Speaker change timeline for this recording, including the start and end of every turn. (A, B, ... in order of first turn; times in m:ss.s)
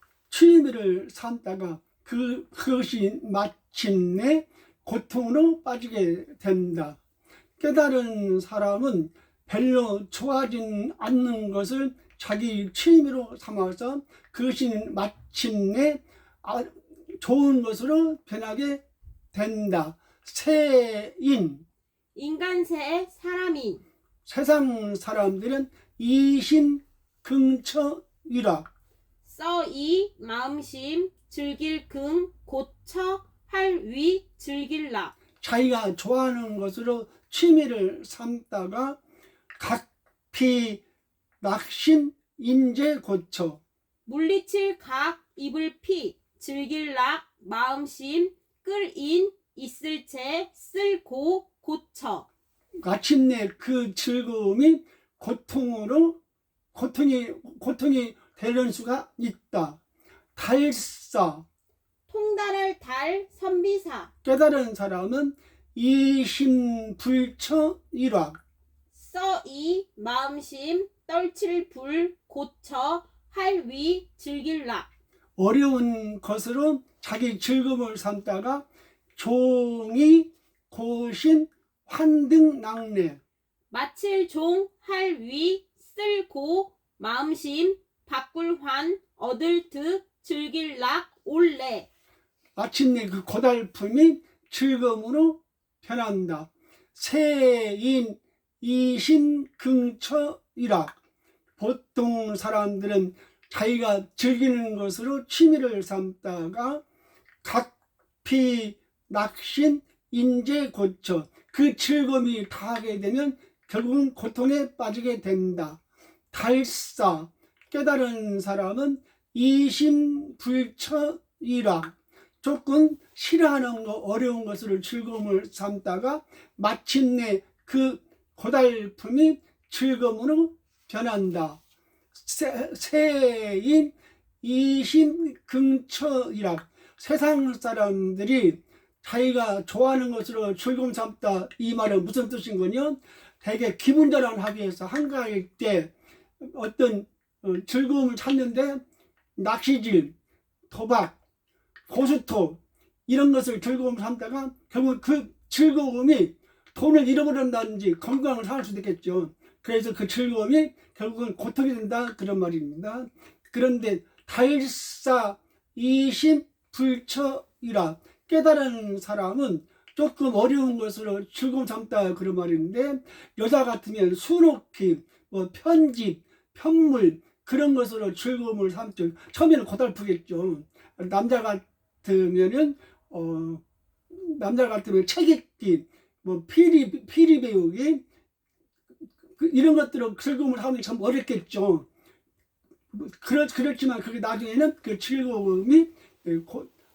0:00.3-0:07.0 A
0:07.6-0:18.8 A
0:19.3-0:21.6 A
0:22.2-0:23.8 B
0:24.2-0:28.7 A
0:29.2-0:35.2 B
0:35.4-0:39.0 A
0:39.6-0:40.8 A
0:41.4-0:43.6 A
0:44.1-0:52.3 B
0:52.8-0:56.2 A
0:56.7-0:59.8 A
1:00.4-1:01.4 A
1:02.1-1:04.1 B
1:04.2-1:08.4 A
1:08.9-1:14.9 B
1:15.4-1:23.2 A
1:23.7-1:31.9 B
1:32.6-1:41.0 A
1:41.6-1:46.8 A
1:47.4-1:55.8 A
1:56.3-2:11.6 A
2:12.2-2:28.8 A
2:29.4-2:30.2 A
2:30.7-2:31.2 A
2:31.9-3:08.0 A
3:09.3-3:11.9 A
3:12.9-3:16.7 A